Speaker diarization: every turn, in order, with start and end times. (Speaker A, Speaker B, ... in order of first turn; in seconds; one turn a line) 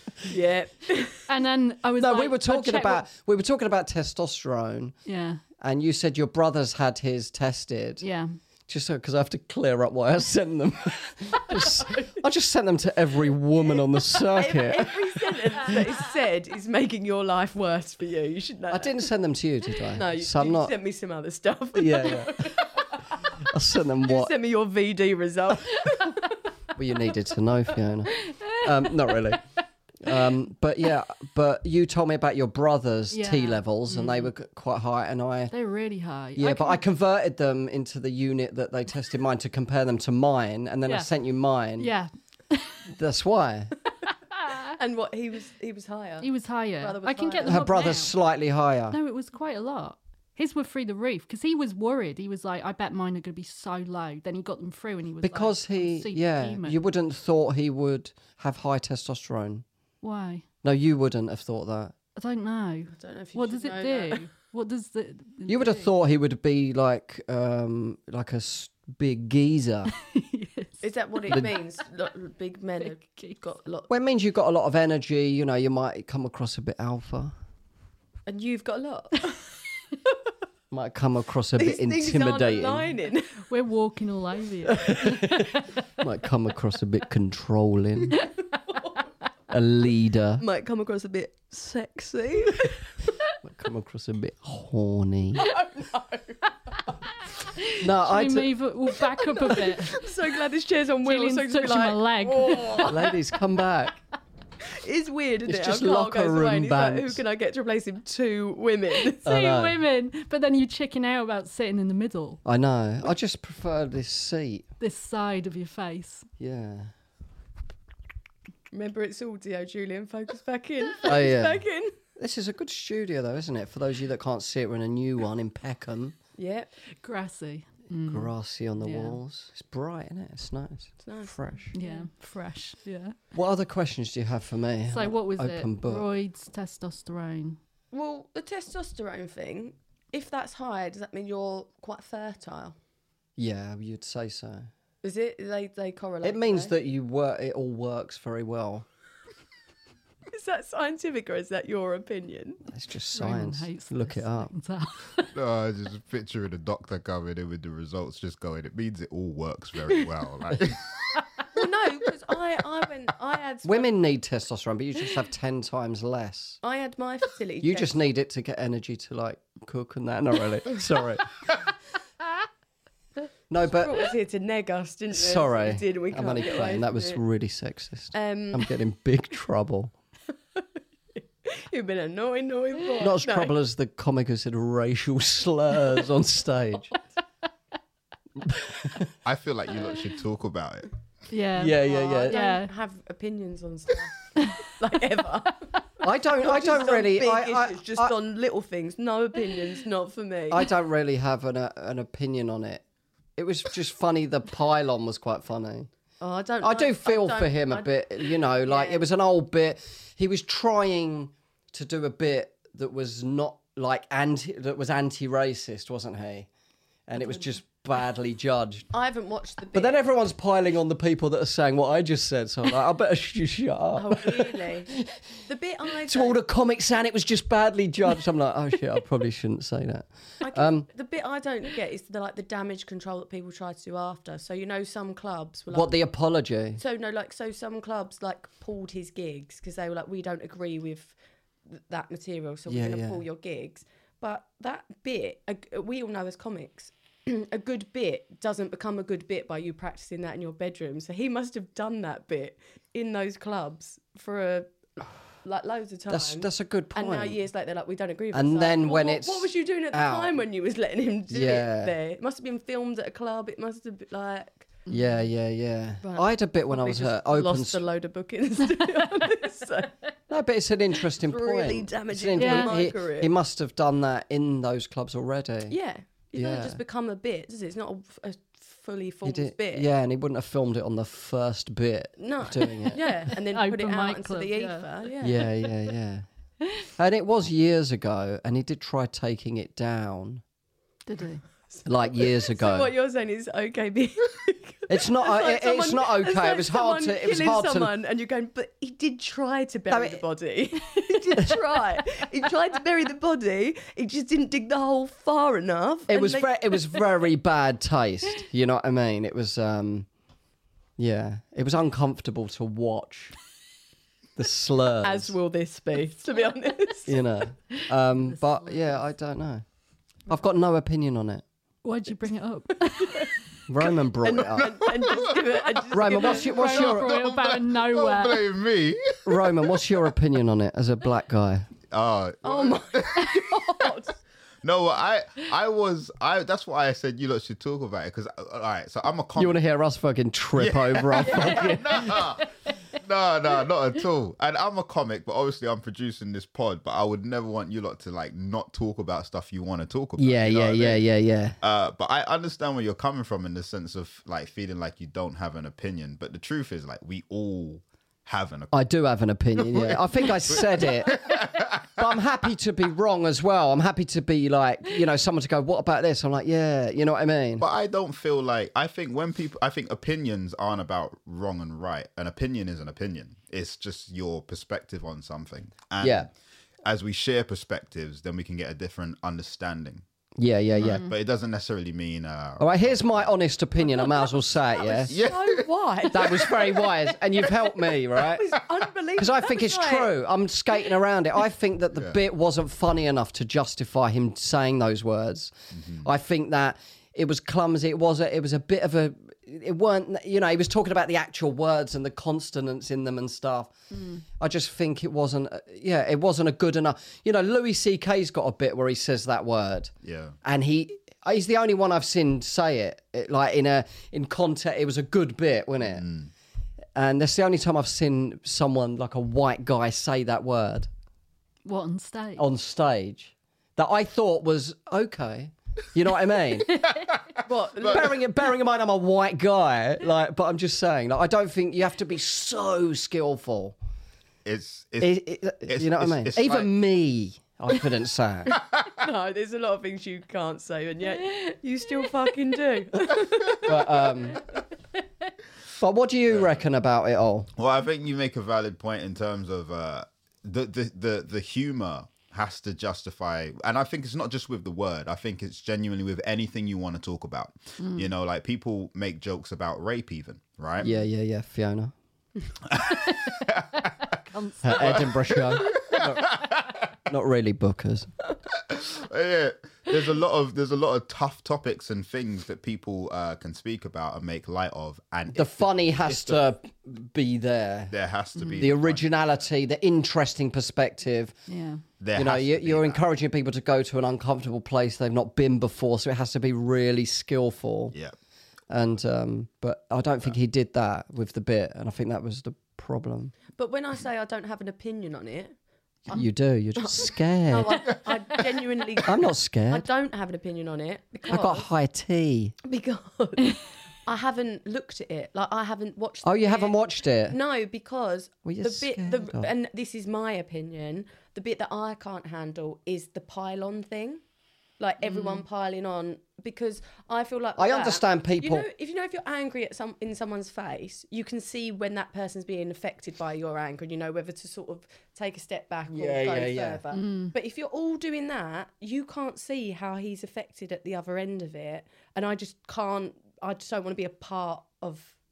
Speaker A: 0.3-1.3
Speaker B: 1.3-3.0
Speaker C: 2.0-4.9
Speaker B: 5.1-5.4
Speaker C: 5.6-8.0
Speaker B: 8.0-8.3
Speaker C: 8.7-15.0
Speaker A: 14.3-19.0
Speaker C: 18.7-20.7
Speaker A: 19.9-23.0
Speaker C: 21.8-22.5
Speaker C: 23.4-24.3
Speaker A: 24.0-26.2
Speaker C: 26.8-29.4
Speaker B: 28.3-29.2
Speaker C: 30.0-35.5
Speaker B: 33.1-34.3
Speaker B: 35.5-36.8
Speaker C: 36.4-41.9
Speaker B: 41.8-42.7
Speaker C: 42.9-43.7
Speaker B: 44.4-44.8
Speaker A: 44.8-46.3
Speaker B: 46.2-48.1
Speaker A: 46.8-47.9
Speaker C: 47.4-49.0
Speaker B: 48.9-56.8
Speaker C: 55.2-59.6
Speaker B: 60.0-60.5
Speaker C: 60.6-62.0
Speaker B: 62.2-65.9
Speaker A: 62.9-64.3
Speaker C: 65.5-69.9
Speaker B: 70.0-71.5
Speaker A: 70.8-73.9
Speaker B: 72.8-73.4
Speaker C: 73.9-77.3
Speaker A: 78.3-79.4
Speaker C: 80.7-82.9
Speaker A: 81.6-83.5
Speaker B: 83.5-85.8
Speaker C: 84.8-88.2
Speaker C: 89.5-90.4
Speaker A: 90.4-92.8
Speaker C: 93.4-95.5
Speaker A: 95.4-96.5
Speaker B: 97.6-100.1
Speaker C: 97.8-98.5
Speaker A: 99.1-103.2
Speaker B: 101.0-102.9
Speaker C: 102.8-104.0
Speaker A: 104.6-109.3
Speaker C: 105.5-107.2
Speaker B: 109.1-112.4
Speaker C: 109.3-109.8
Speaker C: 112.5-114.7
Speaker B: 114.8-116.3
Speaker C: 116.4-116.9
Speaker A: 118.7-121.9
Speaker C: 121.0-121.6
Speaker C: 122.2-126.2
Speaker A: 126.4-126.7
Speaker B: 127.0-129.2
Speaker C: 128.1-131.8
Speaker A: 131.0-132.1
Speaker B: 131.7-133.2
Speaker C: 133.3-136.1
Speaker B: 134.9-137.6
Speaker A: 137.9-142.8
Speaker C: 143.4-144.7
Speaker A: 145.0-146.7
Speaker C: 146.2-148.9
Speaker A: 150.3-152.6
Speaker C: 152.7-154.5
Speaker B: 153.2-155.3
Speaker D: 155.3-161.0
Speaker A: 161.5-164.0
Speaker C: 163.7-166.6
Speaker A: 166.6-168.0
Speaker C: 167.6-171.3
Speaker C: 173.5-174.1
Speaker A: 173.6-177.2
Speaker C: 175.1-179.9
Speaker A: 178.1-178.7
Speaker A: 181.2-183.5
Speaker C: 183.0-186.9
Speaker C: 188.4-189.1
Speaker D: 189.2-190.9
Speaker B: 191.3-192.7
Speaker C: 191.6-192.4
Speaker A: 191.8-195.7
Speaker C: 196.0-198.2
Speaker A: 196.4-200.7
Speaker C: 200.5-202.8
Speaker C: 203.4-205.9
Speaker A: 206.2-209.1
Speaker C: 206.6-216.5
Speaker C: 217.1-218.9
Speaker A: 218.9-220.0
Speaker C: 219.7-225.2
Speaker A: 224.0-224.9
Speaker A: 225.4-226.4
Speaker C: 226.1-230.9
Speaker A: 230.4-236.0
Speaker C: 235.7-236.8
Speaker A: 236.8-241.2
Speaker A: 241.7-264.7
Speaker C: 242.7-243.2
Speaker C: 256.1-257.4
Speaker C: 258.3-260.4
Speaker C: 261.3-261.9
Speaker C: 264.9-267.8
Speaker A: 266.0-269.9
Speaker C: 270.3-275.8
Speaker A: 271.1-273.3
Speaker B: 272.4-272.8
Speaker A: 275.7-279.9
Speaker C: 276.3-276.8
Speaker C: 279.2-283.3
Speaker A: 282.2-285.5
Speaker B: 283.3-284.9
Speaker C: 285.2-286.3
Speaker C: 287.0-290.4
Speaker B: 291.1-291.4
Speaker A: 291.7-306.8
Speaker C: 291.9-292.9
Speaker C: 294.9-297.9
Speaker C: 299.9-300.2
Speaker C: 306.1-310.1
Speaker C: 311.0-313.4
Speaker C: 314.4-315.4
Speaker A: 315.0-317.2
Speaker C: 317.1-319.6
Speaker B: 317.8-319.0
Speaker C: 320.3-321.4
Speaker B: 321.8-323.3
Speaker C: 323.7-324.9
Speaker A: 323.9-326.9
Speaker C: 325.9-327.2
Speaker B: 326.2-328.4
Speaker D: 326.7-329.7
Speaker C: 329.2-331.7
Speaker D: 331.9-333.4
Speaker A: 332.4-334.2
Speaker D: 334.6-339.6
Speaker C: 339.4-342.3
Speaker D: 340.6-351.0
Speaker A: 341.2-341.8
Speaker C: 350.2-351.6
Speaker D: 351.6-358.8
Speaker C: 358.7-361.4
Speaker D: 359.6-362.0
Speaker C: 362.0-367.6
Speaker D: 367.6-376.3
Speaker C: 376.0-376.3
Speaker D: 376.8-380.0
Speaker C: 380.4-381.1
Speaker B: 380.8-381.1
Speaker D: 380.8-383.3
Speaker C: 382.6-385.1
Speaker A: 384.8-386.9
Speaker D: 385.1-385.6
Speaker C: 386.1-388.5
Speaker A: 388.1-390.1
Speaker C: 389.2-403.7
Speaker D: 395.8-396.1
Speaker B: 404.0-404.2
Speaker C: 404.4-409.9
Speaker D: 410.0-410.4
Speaker C: 410.4-416.1
Speaker D: 415.9-416.3
Speaker C: 416.9-420.9
Speaker B: 421.6-422.4
Speaker C: 422.4-426.9
Speaker D: 426.8-427.1
Speaker A: 427.5-428.1
Speaker C: 427.8-433.8
Speaker D: 434.4-436.7
Speaker C: 435.0-438.6
Speaker A: 438.9-444.1
Speaker C: 443.6-444.4
Speaker C: 445.7-447.5
Speaker D: 447.6-460.9
Speaker B: 457.8-458.1
Speaker C: 460.8-461.9
Speaker D: 462.7-464.1
Speaker B: 464.3-465.1
Speaker C: 464.6-466.4
Speaker D: 464.7-466.8
Speaker C: 467.1-468.1
Speaker D: 468.7-476.4
Speaker C: 475.4-477.9
Speaker D: 477.9-479.2
Speaker B: 478.4-478.7
Speaker C: 478.6-481.4
Speaker B: 481.5-481.8
Speaker D: 482.0-483.0
Speaker C: 482.1-487.9
Speaker C: 488.7-493.3
Speaker A: 493.6-495.6
Speaker C: 496.1-497.8
Speaker A: 496.8-501.7
Speaker C: 499.1-499.9
Speaker C: 501.3-502.6
Speaker A: 502.6-514.2
Speaker C: 506.2-507.4
Speaker C: 508.4-509.5
Speaker A: 514.8-535.2
Speaker B: 515.0-515.4
Speaker C: 517.6-518.7
Speaker C: 525.9-526.8
Speaker B: 526.9-527.3